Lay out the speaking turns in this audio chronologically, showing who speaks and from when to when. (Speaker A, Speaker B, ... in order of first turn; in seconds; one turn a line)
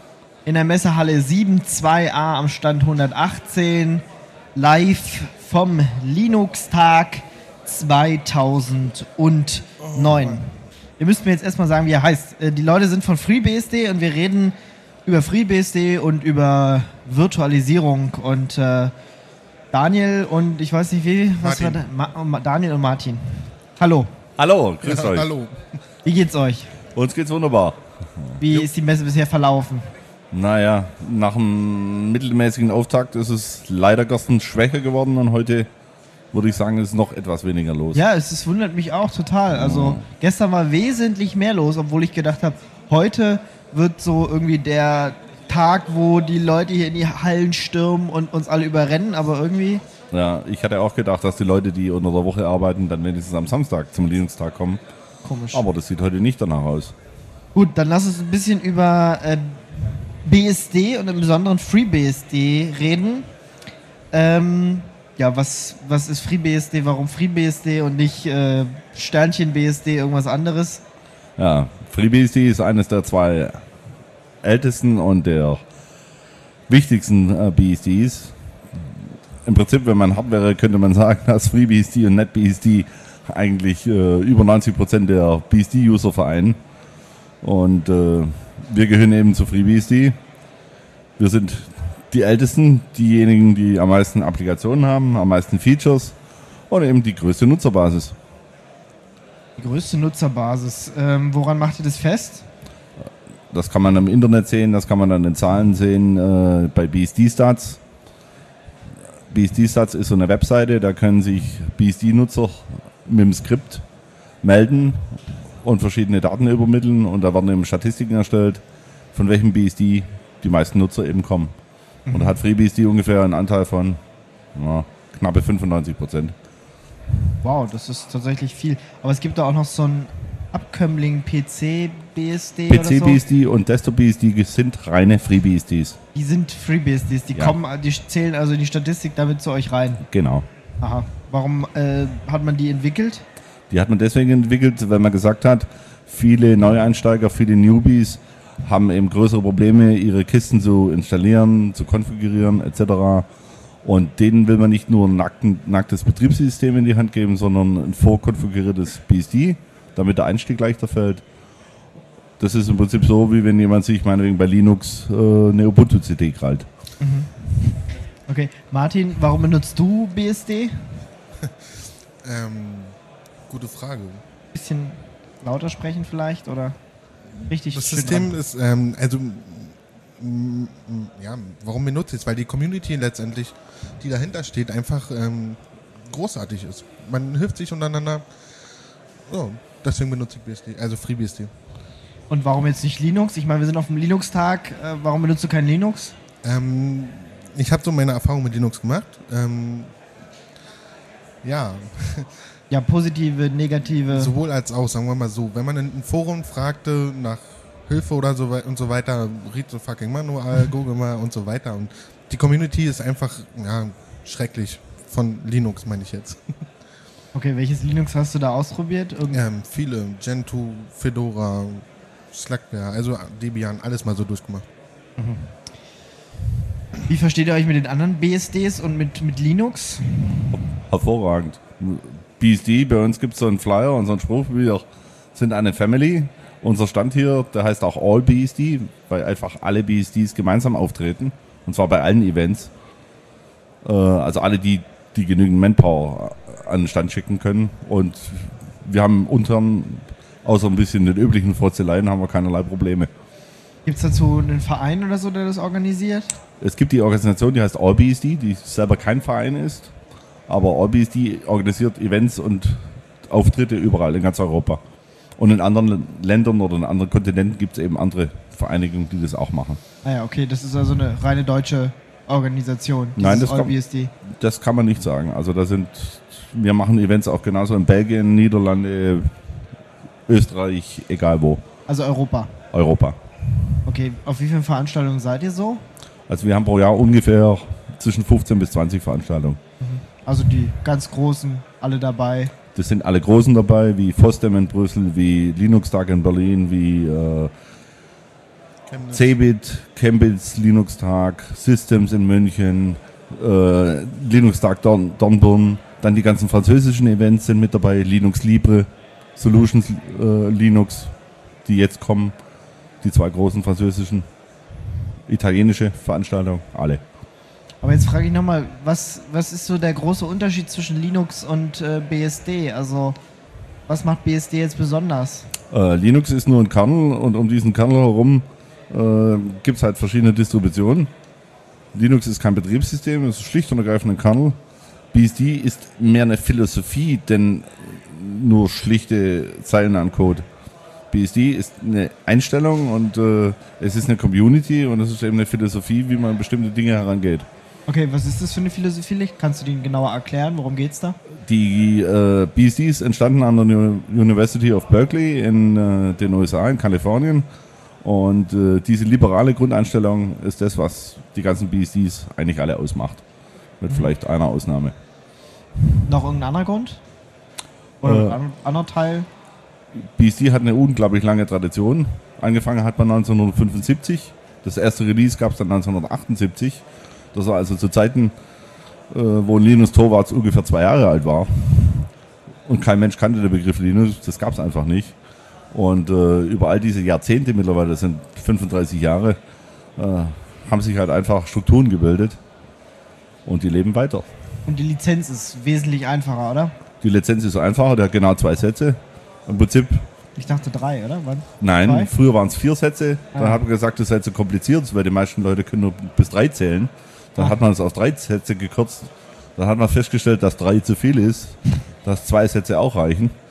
Speaker A: 0.5-4.0
Speaker A: 4.5-18.9
Speaker B: 9.9-10.4
Speaker A: 19.7-24.1
Speaker B: 21.4-21.9
Speaker C: 24.4-25.3
Speaker B: 24.8-25.7
Speaker A: 26.0-26.7
Speaker C: 26.9-28.7
Speaker A: 28.4-29.9
Speaker C: 30.3-35.7
Speaker C: 36.3-38.0
Speaker A: 37.9-49.8
Speaker C: 39.5-40.0
Speaker C: 50.1-54.8
Speaker A: 55.2-55.6
Speaker C: 55.5-56.9
Speaker A: 57.5-63.3
Speaker A: 64.1-70.8
Speaker C: 71.4-73.6
Speaker C: 74.4-75.6
Speaker C: 76.7-78.3
Speaker C: 79.4-86.6
Speaker C: 87.4-90.2
Speaker C: 91.2-96.2
Speaker C: 96.7-98.2
Speaker A: 99.6-102.5
Speaker C: 103.5-107.8
Speaker C: 109.3-113.8
Speaker C: 114.4-118.6
Speaker C: 119.1-121.5
Speaker A: 122.1-122.4
Speaker C: 122.1-124.0
Speaker C: 124.5-126.3
Speaker A: 127.4-133.2
Speaker C: 132.7-136.0
Speaker A: 136.2-140.0
Speaker C: 140.0-140.5
Speaker A: 140.8-143.2
Speaker C: 143.7-153.3
Speaker C: 153.8-161.2
Speaker C: 162.4-166.7
Speaker A: 167.0-171.0
Speaker B: 171.4-174.2
Speaker A: 174.5-176.8
Speaker A: 177.4-178.4
Speaker B: 177.7-188.3
Speaker B: 189.2-191.5
Speaker A: 192.3-196.2
Speaker B: 196.4-200.0
Speaker B: 201.4-202.4
Speaker A: 202.7-204.3
Speaker B: 204.1-216.7
Speaker A: 217.3-219.4
Speaker B: 219.3-224.7
Speaker A: 225.2-225.5
Speaker A: 227.0-230.6
Speaker C: 230.5-242.7
Speaker C: 243.8-253.1
Speaker A: 253.9-256.3
Speaker C: 256.6-259.9
Speaker C: 260.5-264.8
Speaker C: 265.4-269.8
Speaker A: 270.0-274.1
Speaker C: 273.2-279.3
Speaker C: 280.3-281.6
Speaker A: 281.9-282.6
Speaker C: 282.7-283.2
Speaker A: 283.9-285.8
Speaker C: 286.3-289.6
Speaker A: 289.8-292.5
Speaker C: 292.8-297.5
Speaker B: 298.9-299.3
Speaker C: 299.1-311.1
Speaker C: 311.6-312.4
Speaker C: 313.0-314.3
Speaker C: 315.3-317.0
Speaker A: 317.8-323.2
Speaker A: 323.9-325.5
Speaker C: 325.7-331.1
Speaker C: 331.9-334.6
Speaker C: 335.1-340.5
Speaker C: 341.1-347.5
Speaker A: 347.9-351.2
Speaker C: 351.4-357.5
Speaker C: 358.0-363.2
Speaker C: 363.8-364.9
Speaker A: 366.1-367.0
Speaker A: 368.0-369.3
Speaker C: 368.0-368.4
Speaker C: 370.0-376.8
Speaker C: 377.3-378.3
Speaker C: 379.1-382.1
Speaker C: 382.7-385.1
Speaker C: 385.7-389.4
Speaker C: 390.0-392.4
Speaker C: 393.4-394.3
Speaker A: 394.7-396.8
Speaker C: 397.0-400.1
Speaker A: 400.4-402.1
Speaker C: 401.6-413.3
Speaker A: 403.3-403.6